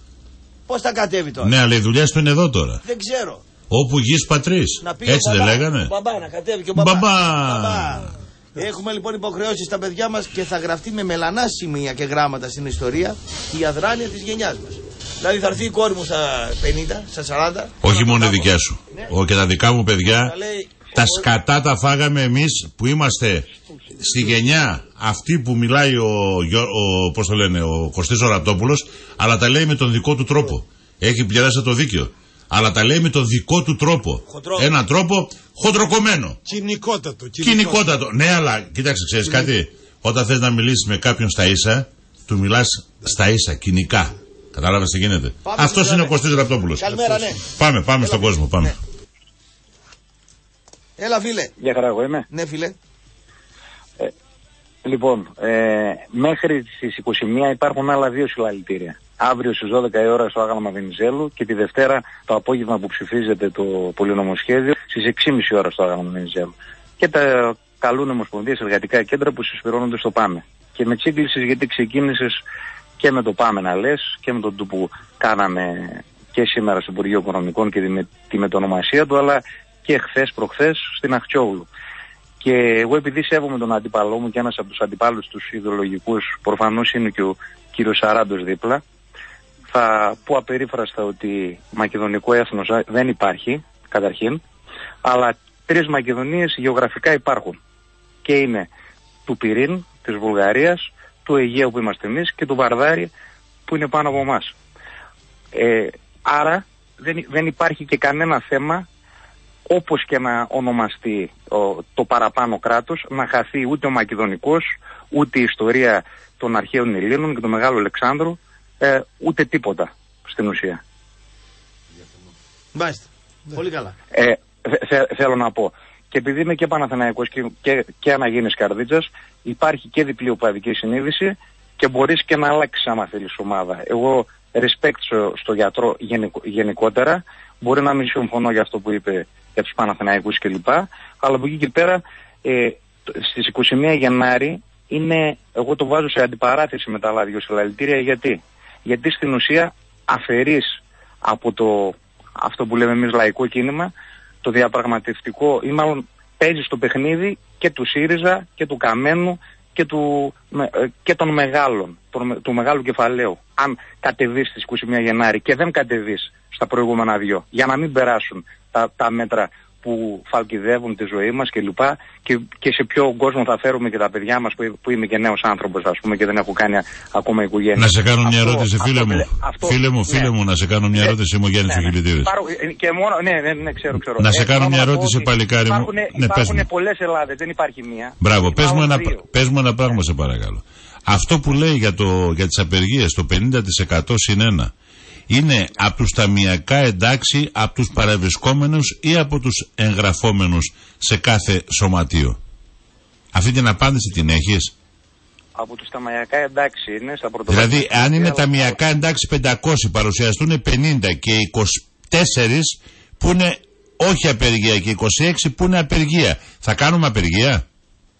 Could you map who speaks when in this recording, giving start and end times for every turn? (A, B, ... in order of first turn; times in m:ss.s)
0:00.7-0:01.5 A
0:01.4-0:02.8 B
0:02.8-0:03.4 A
0:03.7-0:05.9 B
0:04.8-0:19.1 A
0:06.7-0:08.0 B
0:17.8-0:20.3 B
0:20.1-0:21.3 A
0:20.9-0:36.4 B
0:34.2-0:34.7 A
0:36.4-0:37.8 C
0:37.4-0:48.7 B
0:45.4-0:46.2 A
0:46.7-0:47.4 A
0:46.9-0:47.4 C
0:48.0-0:48.8 A
0:51.0-0:51.5 A
0:51.6-0:52.2 D
0:52.3-0:52.7 A
0:54.8-1:12.4 D
1:13.0-1:21.7 D
1:22.4-1:28.8 D
1:29.7-1:34.4 D
1:35.0-1:37.6 D
1:38.2-1:38.7 D
1:39.3-1:43.1 D
1:43.7-1:44.5 D
1:45.5-1:48.8 D
1:49.7-2:00.8 D
2:02.7-2:03.9 A
2:04.1-2:33.9 D
2:34.4-3:00.3 D
2:57.8-3:02.3 B
3:01.7-3:09.3 D
3:04.2-3:06.6 B
3:08.2-3:14.7 B
3:15.3-3:22.4 B
3:23.3-3:24.7 B
3:25.6-3:28.8 D
3:27.5-3:37.6 B